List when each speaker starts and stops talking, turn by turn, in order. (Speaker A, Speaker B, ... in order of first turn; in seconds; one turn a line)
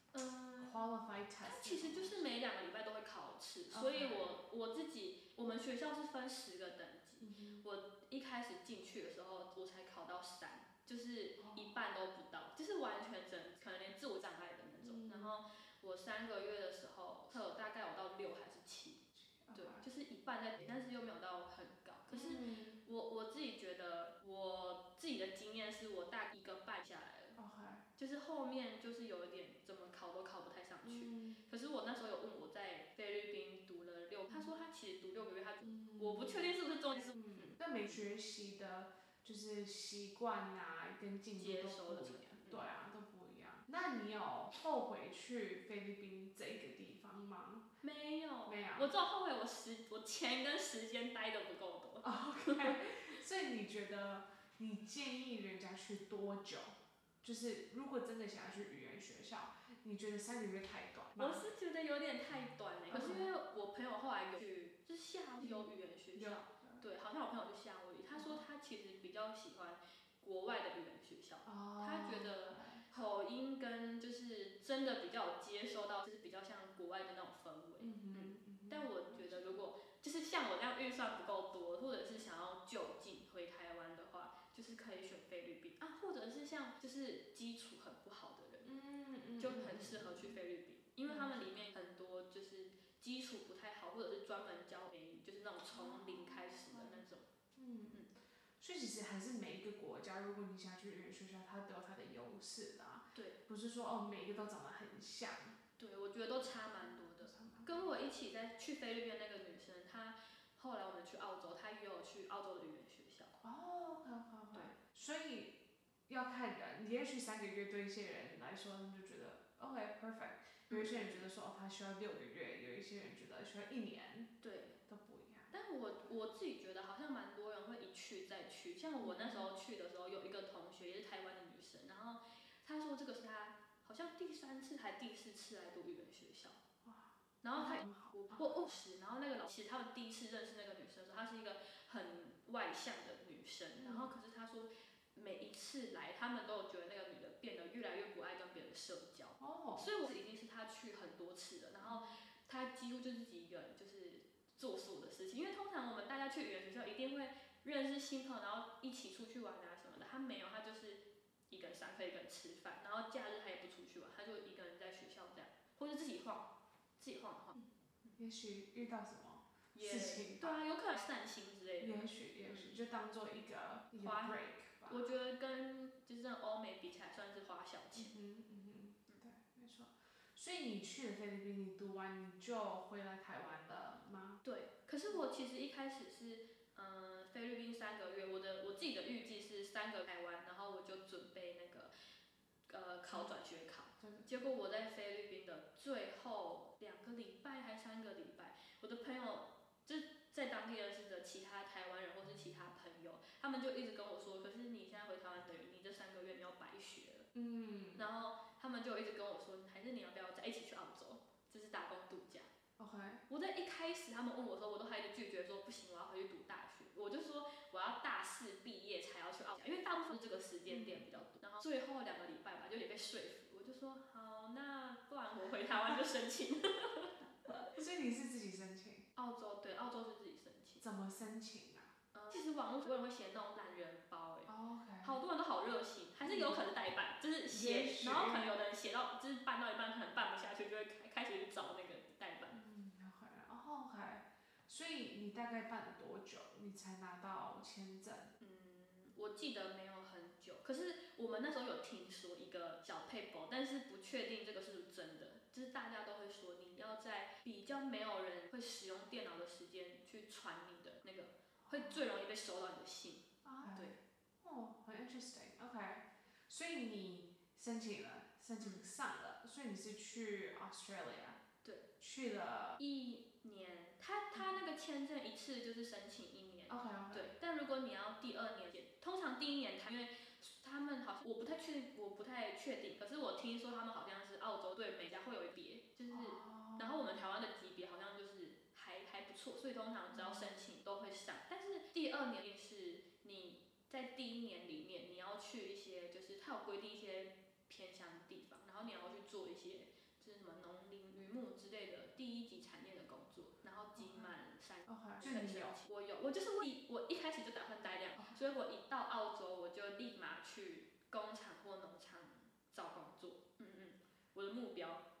Speaker A: 0.1-0.7
Speaker B: 0.6-2.3
Speaker A: 1.4-19.0
Speaker B: 3.7-4.3
Speaker B: 7.2-7.6
Speaker B: 11.4-11.7
Speaker B: 14.8-15.4
Speaker B: 19.1-19.8
Speaker A: 19.5-27.4
Speaker B: 22.1-22.8
Speaker B: 27.4-27.8
Speaker A: 28.0-37.6
Speaker B: 30.8-31.4
Speaker B: 35.6-36.5
Speaker B: 37.1-47.7
Speaker A: 41.4-42.6
Speaker A: 47.8-52.8
Speaker B: 48.5-48.9
Speaker B: 52.0-61.4
Speaker A: 61.2-88.7
Speaker B: 62.9-63.3
Speaker B: 65.4-66.8
Speaker B: 68.1-68.4
Speaker B: 71.4-72.9
Speaker B: 77.8-79.6
Speaker B: 88.6-90.4
Speaker A: 89.4-97.2
Speaker B: 91.0-91.5
Speaker B: 95.7-97.0
Speaker B: 97.5-105.6
Speaker A: 105.8-113.3
Speaker B: 107.2-107.9
Speaker B: 113.4-115.5
Speaker B: 116.1-124.3
Speaker A: 120.7-121.2
Speaker A: 124.4-124.8
Speaker B: 124.9-125.5
Speaker A: 125.5-136.6
Speaker B: 129.0-129.5
Speaker B: 136.8-138.5
Speaker A: 137.4-168.2
Speaker B: 143.8-144.1
Speaker B: 149.4-149.9
Speaker B: 151.8-152.2
Speaker B: 167.5-170.6
Speaker A: 169.7-172.8
Speaker B: 171.8-175.1
Speaker A: 174.0-174.4
Speaker A: 174.9-178.2
Speaker B: 177.9-184.4
Speaker A: 184.4-191.9
Speaker A: 192.7-207.3
Speaker B: 194.0-194.3
Speaker B: 207.3-208.1
Speaker A: 207.9-212.5
Speaker B: 212.8-213.2
Speaker A: 213.3-227.7
Speaker B: 220.7-221.0
Speaker B: 227.7-229.1
Speaker A: 229.2-230.8
Speaker B: 230.8-231.9
Speaker A: 232.1-234.5
Speaker B: 234.4-235.2
Speaker A: 235.0-242.6
Speaker B: 236.2-236.6
Speaker B: 237.5-238.5
Speaker B: 242.5-248.3
Speaker A: 248.4-264.0
Speaker B: 261.6-262.0
Speaker B: 263.4-271.4
Speaker B: 272.0-272.8
Speaker A: 272.8-315.0
Speaker B: 276.7-277.3
Speaker B: 286.1-287.1
Speaker B: 290.1-290.5
Speaker B: 304.0-304.3
Speaker B: 304.9-305.8